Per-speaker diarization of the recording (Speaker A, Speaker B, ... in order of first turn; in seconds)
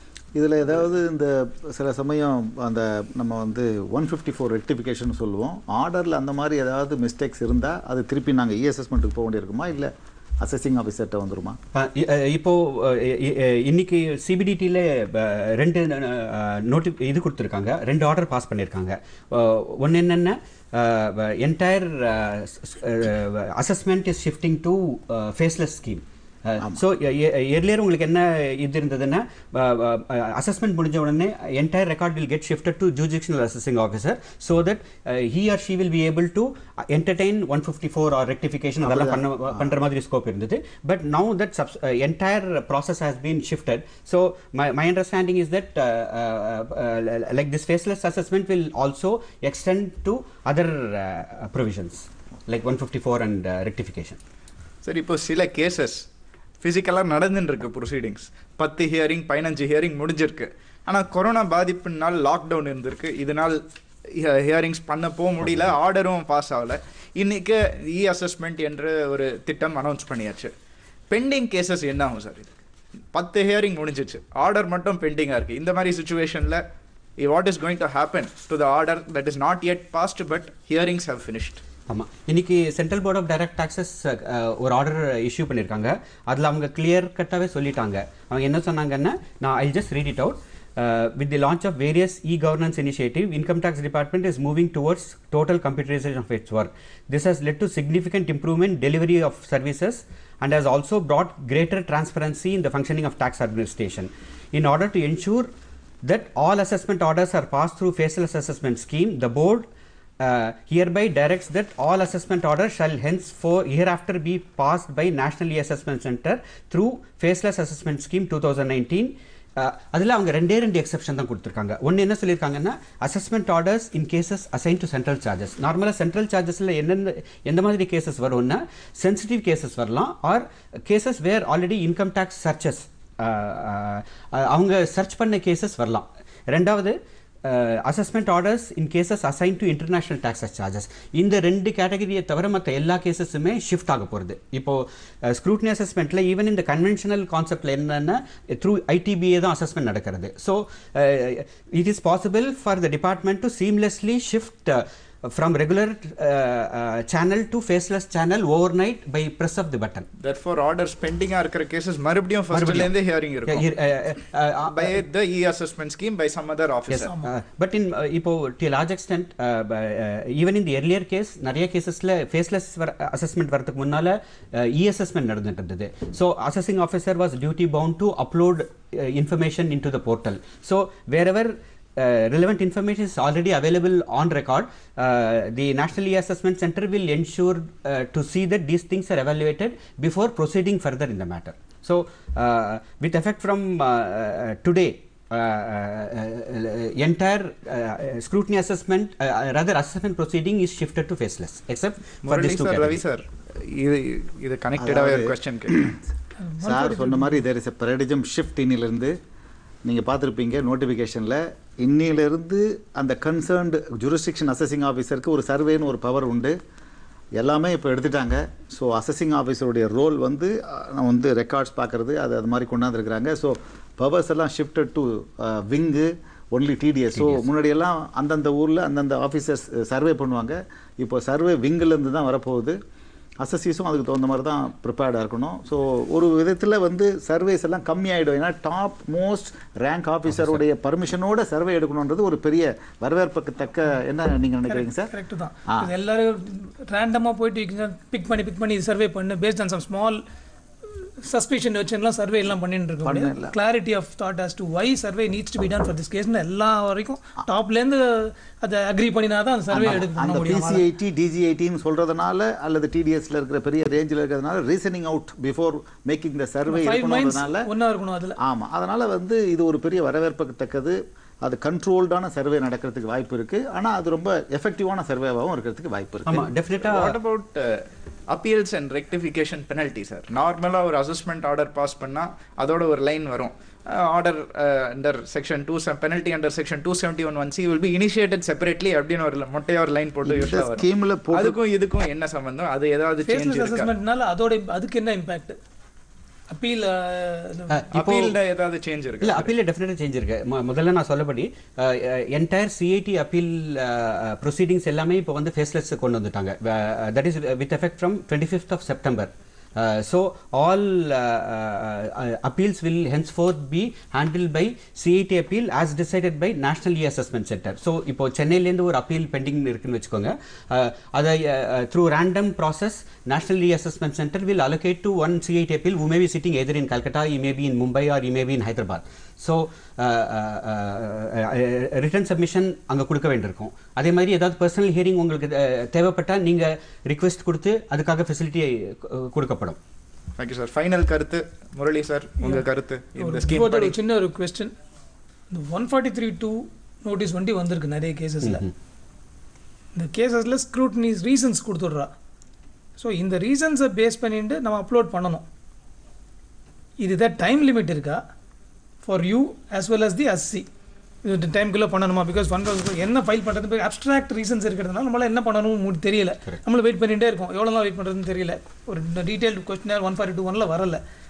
Speaker A: 0.3-11.6, 38.8-39.7, 204.8-206.0, 206.6-209.2, 209.8-216.6, 217.4-232.8, 233.4-245.1, 253.0-253.5, 259.7-267.7, 268.4-276.5, 290.2-291.6
Speaker B: 11.7-54.2, 81.9-105.5, 106.0-109.7, 110.2-160.1, 162.5-162.9, 163.5-165.0, 166.9-203.0, 227.2-227.5, 240.3-240.6, 276.3-277.2, 297.7-298.4, 299.2-339.8, 348.4-348.7
Speaker C: 54.8-56.1, 56.6-70.5, 71.1-72.6, 73.1-76.6, 77.2-81.6, 160.2-163.7, 164.7-167.1, 202.2-205.9, 276.8-293.9, 297.9-299.5, 340.4-343.9
Speaker D: 167.0-167.3, 206.4-207.4, 244.7-250.2, 250.8-260.9, 266.7-268.4, 293.3-295.6, 296.5-297.8, 343.2-344.7, 345.5-348.7, 349.9-352.1, 353.0-355.5, 357.0-358.2, 359.0-360.7, 361.2-371.0